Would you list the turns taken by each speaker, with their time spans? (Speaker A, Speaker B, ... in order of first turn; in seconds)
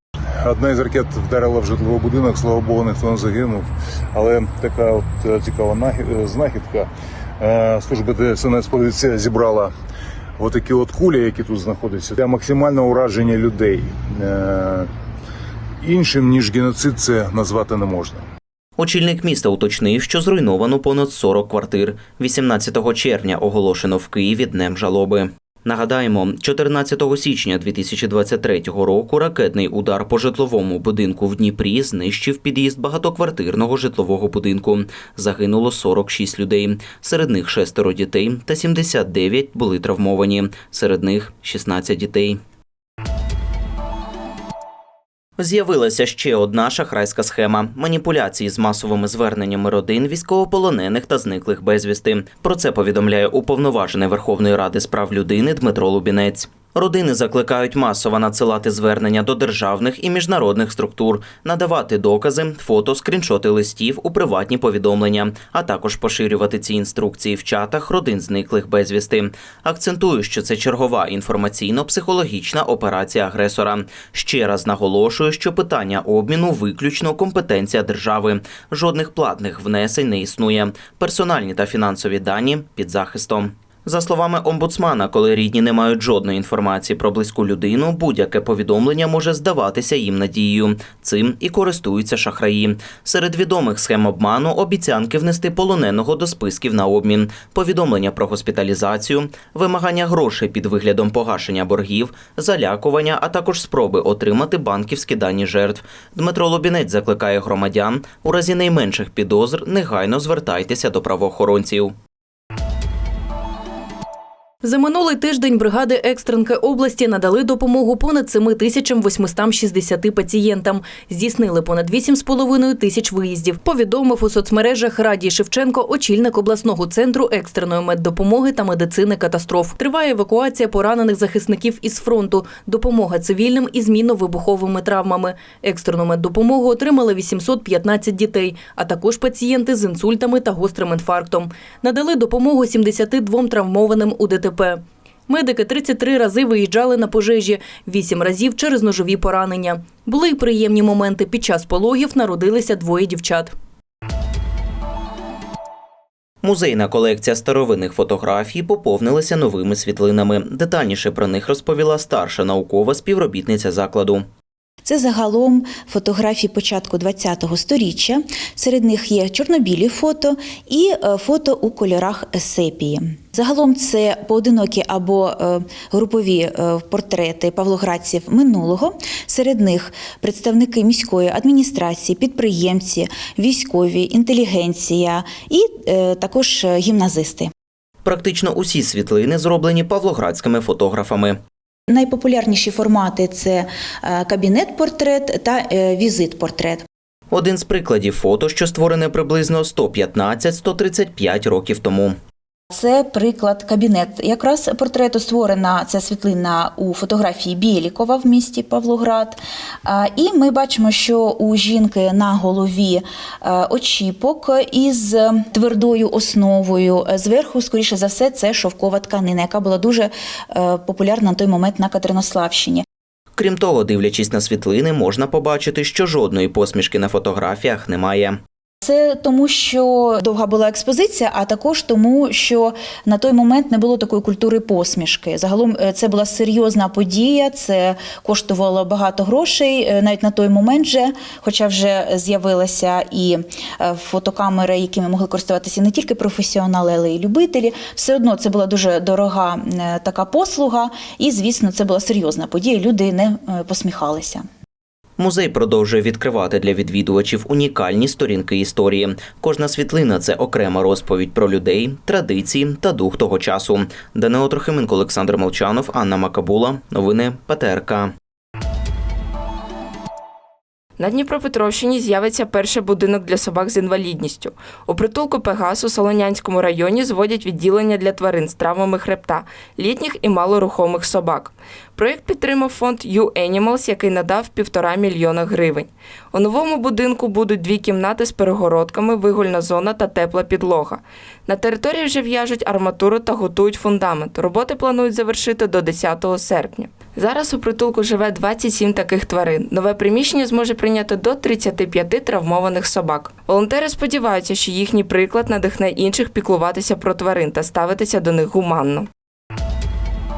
Speaker A: 0.4-9.7, 10.4-14.9, 15.8-18.2
Speaker B: 18.8-42.4, 45.4-111.9, 156.4-164.2, 188.0-191.4, 197.3-202.2, 223.3-228.4, 255.2-268.1
Speaker C: 114.6-153.5
Speaker D: 164.8-187.5, 191.9-196.8, 202.7-222.8, 228.8-254.4
Speaker E: 271.0-309.1